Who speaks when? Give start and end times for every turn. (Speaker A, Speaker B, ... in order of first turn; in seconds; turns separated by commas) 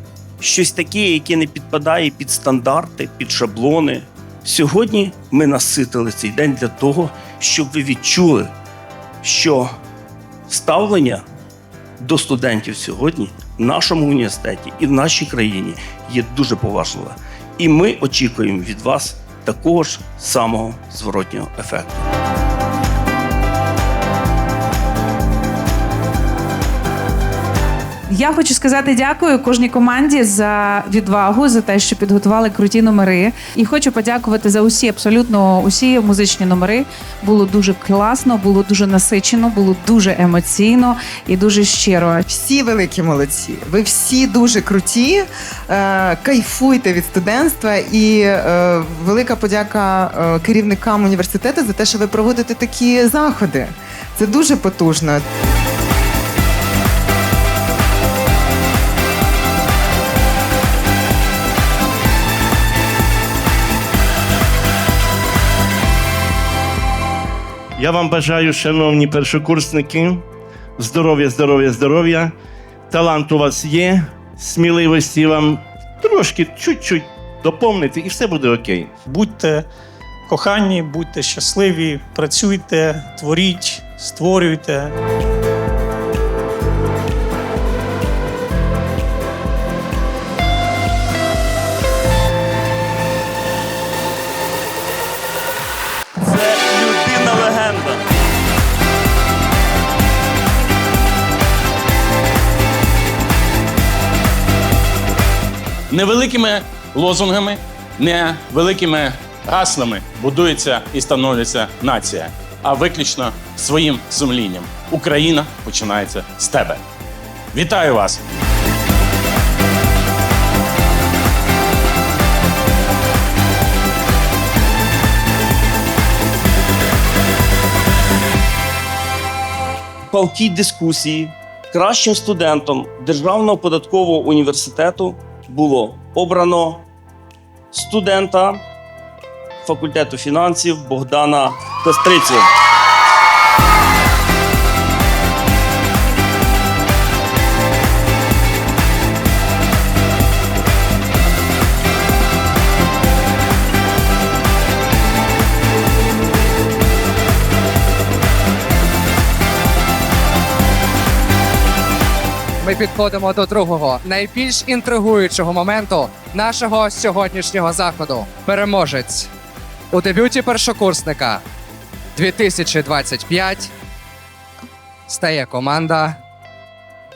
Speaker A: 0.4-8.5, Speaker A: 9.2-9.7, Speaker A: 10.5-11.2, Speaker A: 12.0-22.1, Speaker B: 28.1-42.2, Speaker C: 42.3-55.2, Speaker D: 67.8-70.2, Speaker D: 70.8-72.3, Speaker D: 72.9-78.9, Speaker E: 79.1-79.7, Speaker E: 80.3-84.9, Speaker A: 96.2-98.0, Speaker F: 105.9-116.8, Speaker F: 117.5-118.2, Speaker A: 130.1-136.9, Speaker A: 137.7-138.6, Speaker A: 139.6-142.5, Speaker G: 162.6-169.3, Speaker G: 169.9-171.4, Speaker G: 172.1-173.7, Speaker G: 175.1-176.2